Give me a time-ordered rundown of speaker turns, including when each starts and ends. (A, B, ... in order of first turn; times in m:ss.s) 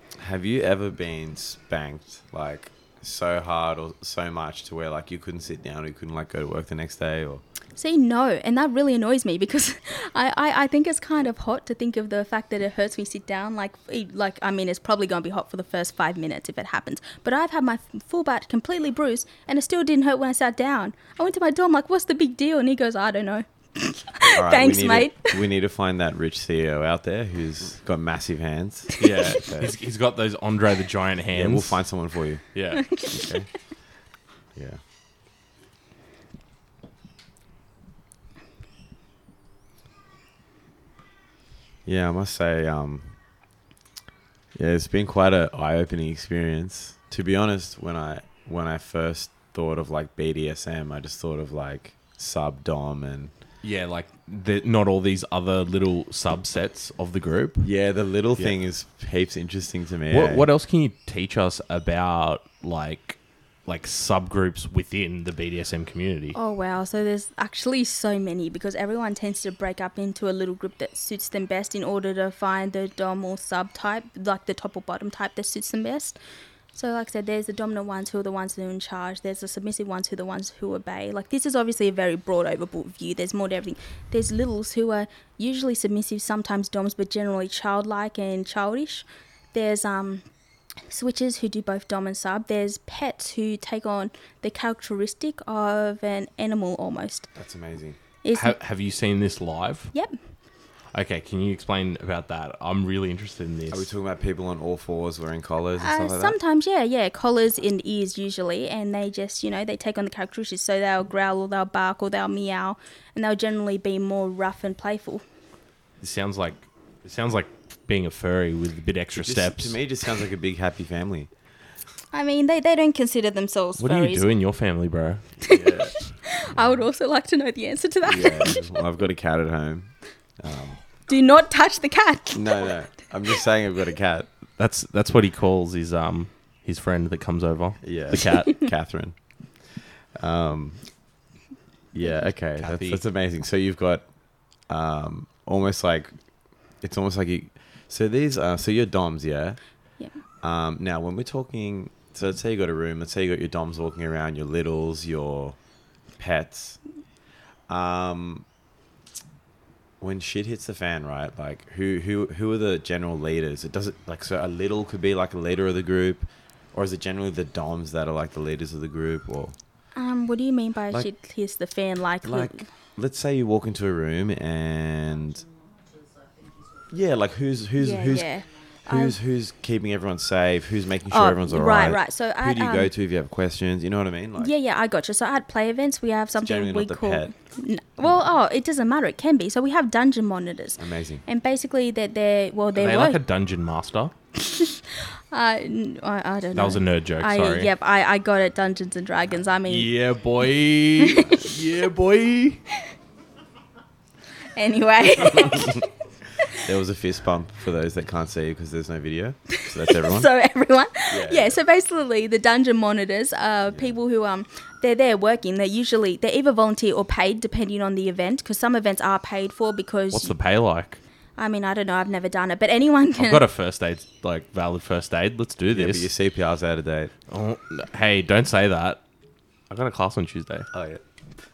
0:00.2-0:07.4 A
0:07.8-0:25.4 B
0:24.3-0:29.8 A
0:29.0-0:31.8 C
0:31.3-0:32.4 A
0:32.5-0:32.8 C
0:32.8-0:33.3 B
0:33.1-0:33.5 A
0:34.6-0:34.8 A
0:41.9-0:43.2 A
0:44.6-0:53.3 A
0:53.6-0:57.7 C
0:57.6-1:00.5 A
1:00.1-1:06.4 C
1:06.3-1:16.2 B
1:16.7-1:30.2 B
1:30.9-1:37.3 B
1:37.4-1:38.0 A
1:38.2-1:38.6 B
1:38.3-1:39.9 C
1:40.9-1:43.9 C
1:43.7-1:46.4 A
1:45.8-1:55.2 B
1:56.0-1:59.8 C
1:59.2-2:01.3 A
2:02.1-2:04.2 B
2:03.8-2:05.2 C
2:05.5-2:08.8 B
2:05.5-2:05.9 A
2:08.1-2:10.8 A
2:11.1-2:12.7 B
2:12.3-2:14.3 A
2:14.6-2:18.7 C
2:17.8-2:19.2 A
2:19.7-2:20.8 A
2:21.9-2:24.1 A
2:22.6-2:23.0 C
2:24.7-2:26.1 A
2:26.8-2:29.6 A
2:30.4-2:35.6 A
2:36.2-2:36.8 A
2:37.7-2:38.5 A
2:40.0-2:49.6 A
2:50.0-2:52.7 B
2:52.2-2:55.4 A
2:56.9-3:04.5 A
2:57.8-2:59.2 B
3:01.1-3:02.9 B
3:04.4-3:13.2 B
3:06.4-3:07.3 A
3:10.8-3:11.2 A
3:12.8-3:14.1 C
3:14.4-3:19.9 B
3:16.6-3:17.7 C
3:19.7-3:22.6 C
3:21.0-3:21.5 B
3:24.6-3:26.6 B
3:25.4-3:25.7 A
3:26.5-3:30.3 A
3:29.5-3:40.3 B
3:31.1-3:31.6 A
3:33.7-3:34.0 A
3:40.1-3:41.0 C
3:41.4-3:43.4 B
3:43.2-3:46.1 C
3:45.7-3:47.1 A
3:47.3-3:49.0 C
3:49.7-3:50.7 C
3:50.7-3:51.0 A